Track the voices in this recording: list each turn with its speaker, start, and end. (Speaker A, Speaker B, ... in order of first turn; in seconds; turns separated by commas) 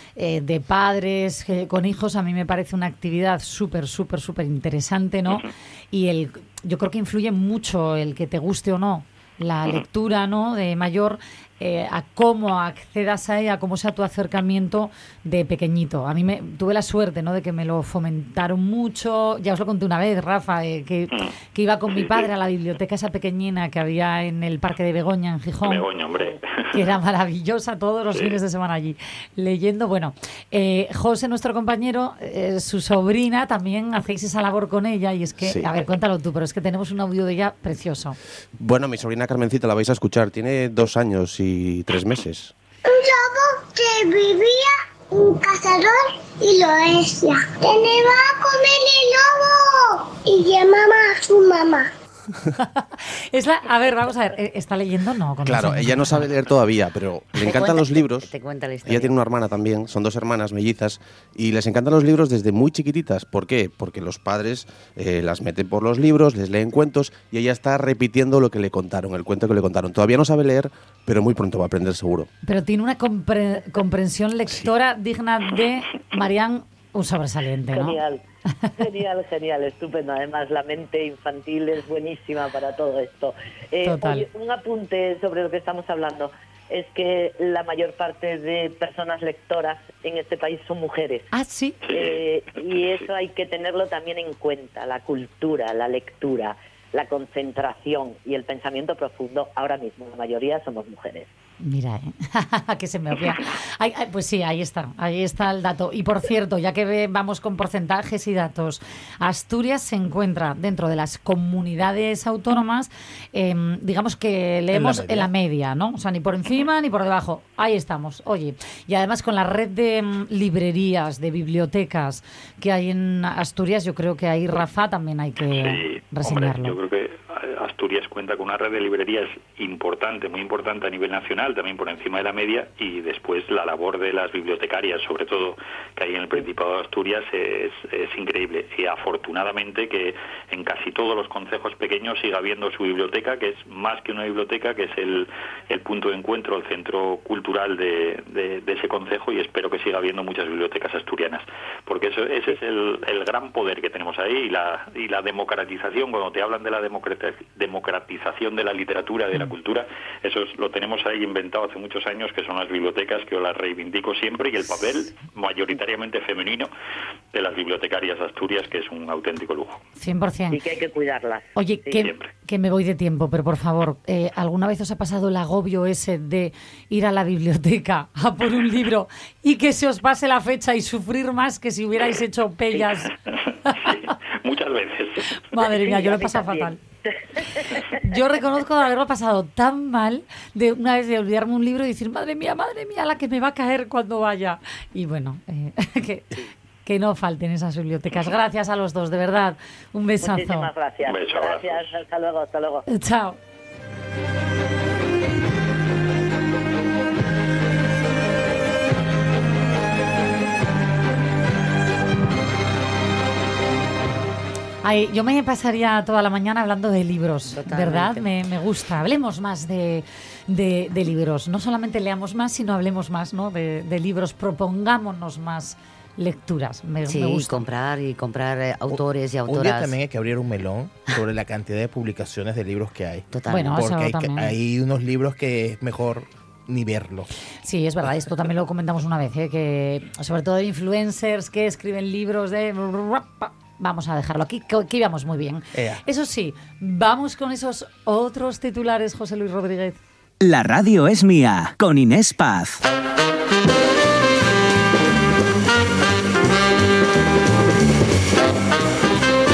Speaker A: 0.2-25.9, Speaker B: 21.9-22.3, Speaker B: 25.6-26.7, Speaker A: 26.7-38.2, Speaker B: 28.1-28.4, Speaker C: 35.4-35.7, Speaker C: 38.6-42.5, Speaker D: 42.9-51.9, Speaker A: 52.6-56.3, Speaker C: 55.5-58.3, Speaker E: 57.4-59.2, Speaker C: 58.8-72.3, Speaker A: 72.4-78.0, Speaker F: 77.7-78.2, Speaker F: 78.8-91.3, Speaker A: 83.8-84.3, Speaker A: 91.3-91.8, Speaker B: 91.8-93.1, Speaker F: 91.9-101.3, Speaker A: 101.6-126.8, Speaker G: 114.7-115.3, Speaker B: 125.5-166.7, Speaker B: 167.3-169.8, Speaker A: 170.0-170.6, Speaker F: 170.5-172.1, Speaker A: 171.6-183.1, Speaker B: 172.0-172.3, Speaker B: 183.3-185.3, Speaker A: 183.7-184.1, Speaker A: 185.4-186.8, Speaker F: 185.6-188.0, Speaker A: 187.9-200.7, Speaker F: 200.2-202.9, Speaker B: 201.1-201.8, Speaker A: 202.9-203.4, Speaker A: 214.8-227.7, Speaker E: 217.5-218.3, Speaker E: 227.1-229.9, Speaker G: 228.9-237.3, Speaker E: 233.3-233.7, Speaker A: 233.5-234.5, Speaker A: 237.6-250.0, Speaker G: 245.7-246.0, Speaker H: 250.4-252.8